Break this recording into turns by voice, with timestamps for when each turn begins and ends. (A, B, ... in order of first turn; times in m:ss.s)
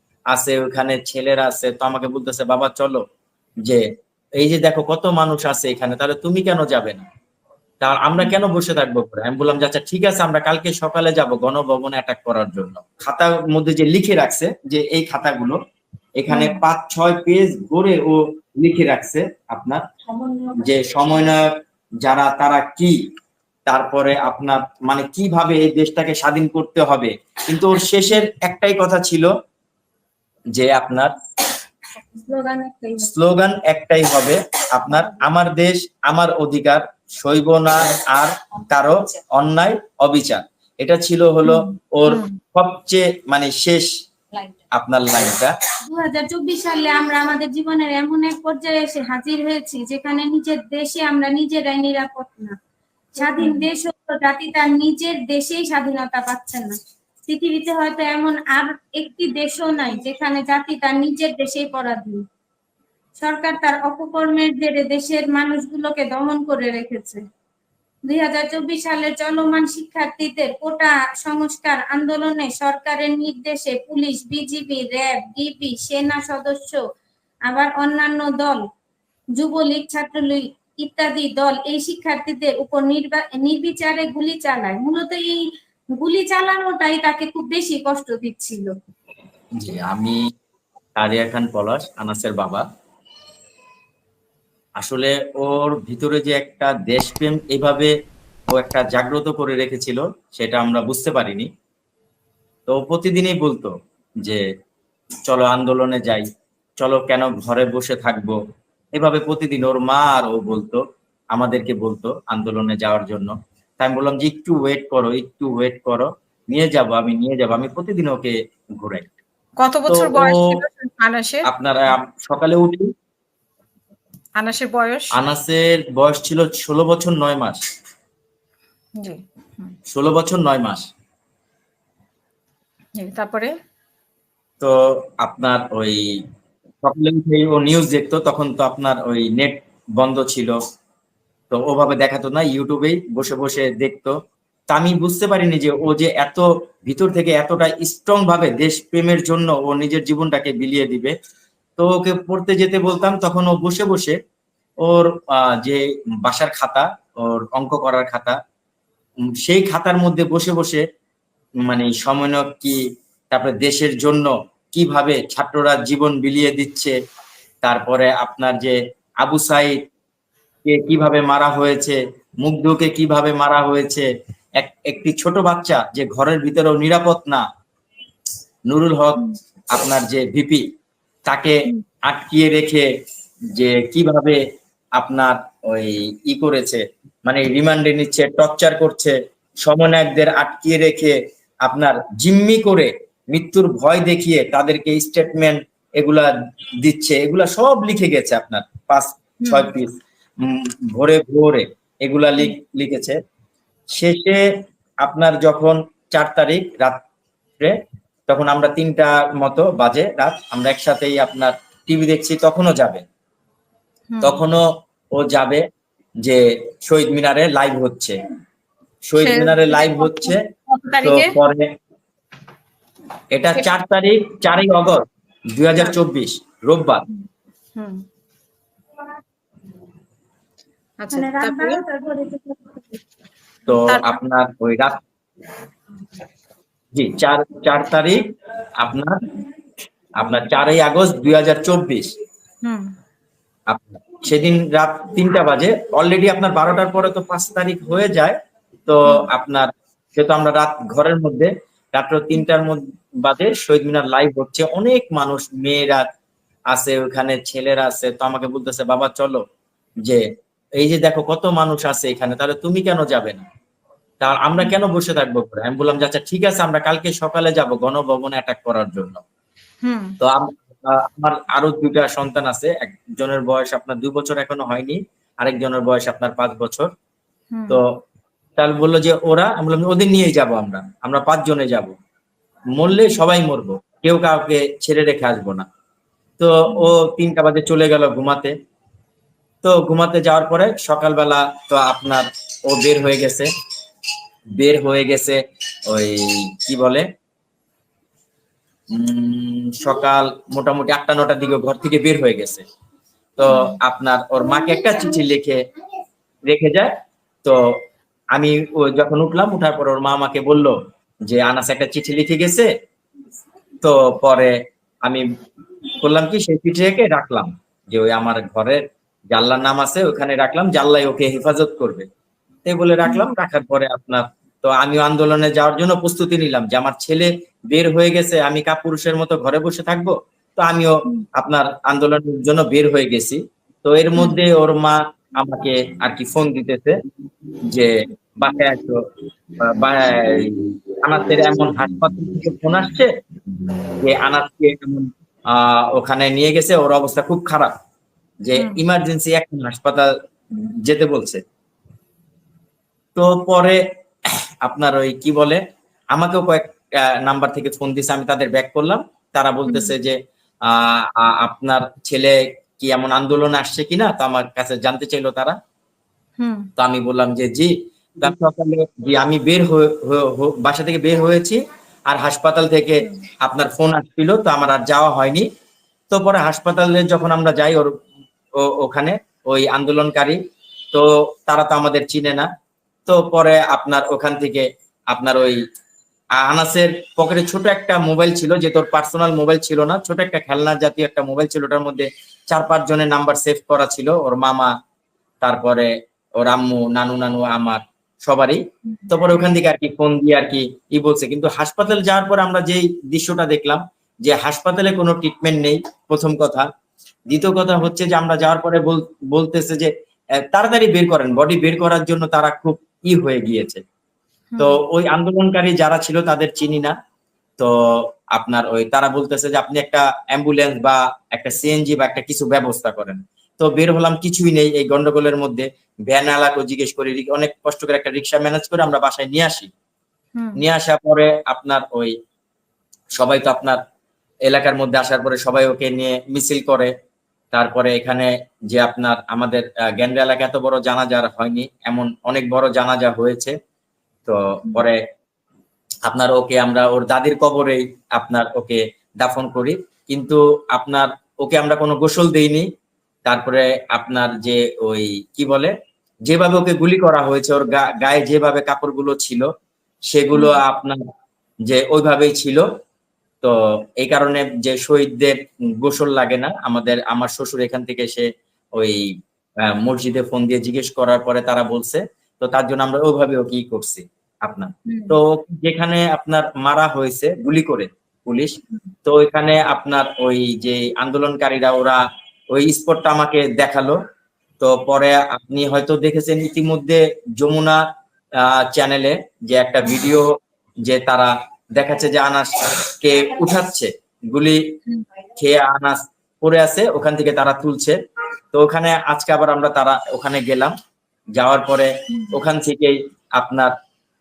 0:00.3-0:03.0 A
0:04.4-0:07.0 A
0:07.8-0:15.6 A
0:16.2-0:19.8 A
0:16.3-0:16.6 B
0:20.5-0:21.5 A
0:22.0-0:23.0 A
0:23.7-0:29.3 A
0:30.5-0:31.1 A
0:32.2-0:33.1 C
0:33.0-0:43.9 A
0:41.4-0:42.4 B
0:44.7-0:45.5 A
0:45.8-0:52.5 C
0:53.1-1:02.2 C
0:53.2-0:53.7 B
1:03.2-1:07.2 C
1:08.1-1:16.8 C
1:17.5-1:18.6 C
1:19.4-1:25.4 C
1:25.9-1:28.7 C
1:29.6-1:30.2 A
1:31.0-1:32.6 A
1:34.8-1:37.9 A
1:38.5-1:41.5 A
1:42.7-1:43.7 A
1:45.3-1:46.3 A
1:46.8-1:48.4 A
1:48.9-1:50.8 A
1:51.3-1:59.1 A
1:59.6-2:01.4 B
1:59.9-2:00.4 A
2:01.4-2:02.9 A
2:04.4-2:05.1 B
2:05.1-2:07.6 A
2:09.0-2:09.7 B
2:09.9-2:10.9 A
2:13.0-2:13.5 B
2:14.6-2:16.0 A
2:16.8-2:20.5 A
2:21.5-2:24.1 A
2:24.7-2:31.1 A
2:31.8-2:34.2 A
2:34.8-2:38.4 A
2:39.4-2:40.8 A
2:41.6-2:42.8 A
2:43.3-2:46.9 A
2:47.6-2:49.8 A
2:50.6-2:54.1 A
2:54.6-2:57.4 A
2:58.7-3:00.6 A
3:01.3-3:02.9 A
3:03.5-3:04.4 A
3:05.0-3:16.3 A
3:16.8-3:23.2 A
3:19.4-3:19.7 B
3:23.9-3:24.4 A
3:25.0-3:27.0 A
3:28.3-3:33.0 A
3:34.1-3:34.4 B
3:34.2-3:34.6 A
3:35.1-3:35.6 A
3:36.2-3:38.2 A
3:39.1-3:40.4 A
3:39.2-3:41.4 B
3:41.0-3:41.7 A
3:43.3-3:47.0 A
3:47.8-3:48.0 B
3:51.0-3:51.8 B
3:51.1-3:53.0 C
3:53.7-3:55.0 A
3:53.8-3:54.2 B
3:56.9-3:58.2 A
3:58.8-3:59.2 A
4:00.2-4:02.1 A
4:02.6-4:02.9 B
4:03.7-4:16.0 A
4:16.7-4:19.4 A
4:20.8-4:23.4 A
4:24.2-4:29.2 A
4:29.8-4:30.2 B
4:30.2-4:36.9 A
4:37.5-4:37.8 B
4:38.6-4:41.9 A
4:42.8-4:45.6 A
4:46.4-4:48.5 A
4:46.7-4:46.9 B
4:49.6-4:53.5 A
4:54.6-4:57.1 A
4:58.9-5:02.6 A
5:03.4-5:05.6 A
5:03.5-5:03.8 B
5:06.5-5:06.9 A
5:08.3-5:10.8 A
5:11.3-5:12.7 A
5:13.8-5:15.2 A
5:16.0-5:22.1 A
5:22.6-5:37.0 A
5:37.7-5:39.0 A
5:39.6-5:43.1 A
5:44.0-5:47.7 A
5:48.4-5:51.4 A
5:48.6-5:48.8 B
5:53.2-5:53.8 A
5:54.6-5:55.6 A
5:56.1-6:05.6 A
5:59.7-5:59.9 B
6:06.4-6:06.7 B
6:06.8-6:15.5 A
6:16.1-6:17.9 A
6:18.6-6:20.4 A
6:20.9-6:22.5 A
6:23.1-6:25.6 A
6:26.4-6:34.7 A
6:35.4-6:46.7 A
6:38.9-6:39.4 B
6:47.3-6:49.9 A
6:50.5-6:53.8 A
6:54.5-6:54.8 B
6:54.6-6:56.9 A
6:57.6-7:09.7 A
7:10.6-7:12.1 A
7:13.2-7:13.8 A
7:14.5-7:16.9 A
7:17.5-7:23.5 A
7:24.2-7:25.0 A
7:26.0-7:32.7 A
7:33.2-7:35.7 A
7:36.3-7:39.4 A
7:40.1-7:41.0 A
7:40.3-7:40.6 B
7:41.7-7:42.6 A
7:43.4-7:49.0 A
7:49.6-8:02.0 A
7:54.9-7:55.2 B
8:02.5-8:04.0 A
8:04.6-8:07.8 A
8:08.4-8:10.3 A
8:10.8-8:14.6 A
8:15.4-8:18.0 A
8:18.5-8:20.7 A
8:21.4-8:23.7 A